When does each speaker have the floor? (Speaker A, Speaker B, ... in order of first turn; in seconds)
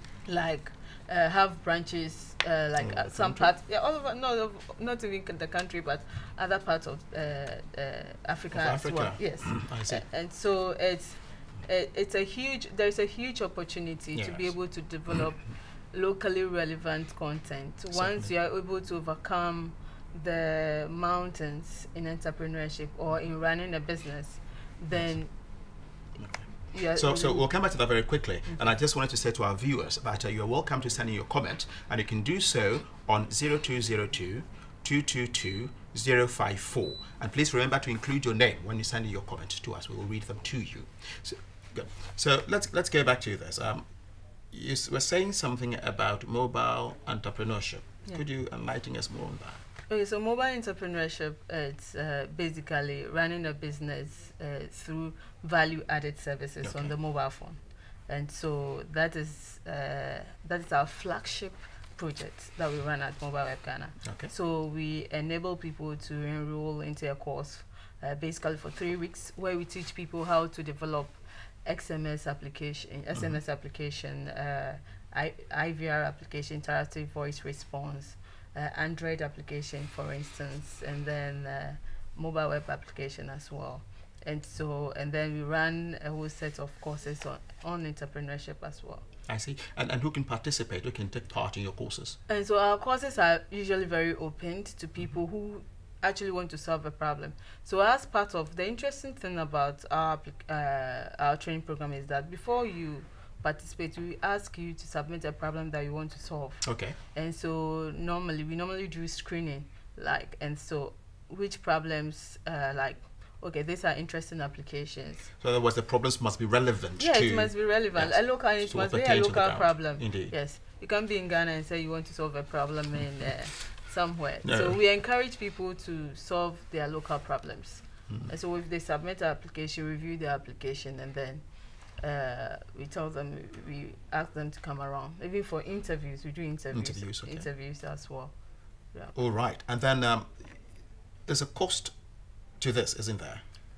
Speaker A: 0.2-25.8, 26.7-27.7, 49.9-89.1, 92.3-115.3, 117.0-138.4, 138.9-139.2
Speaker B: 2.8-3.5, 8.5-10.1, 14.2-14.6, 17.9-18.3, 24.9-25.5, 26.2-49.6, 56.6-56.9, 64.0-64.3, 73.1-73.4, 89.3-92.2, 106.6-107.0, 115.4-120.4, 124.4-124.8, 136.7-137.5, 139.2-140.7, 141.3-143.4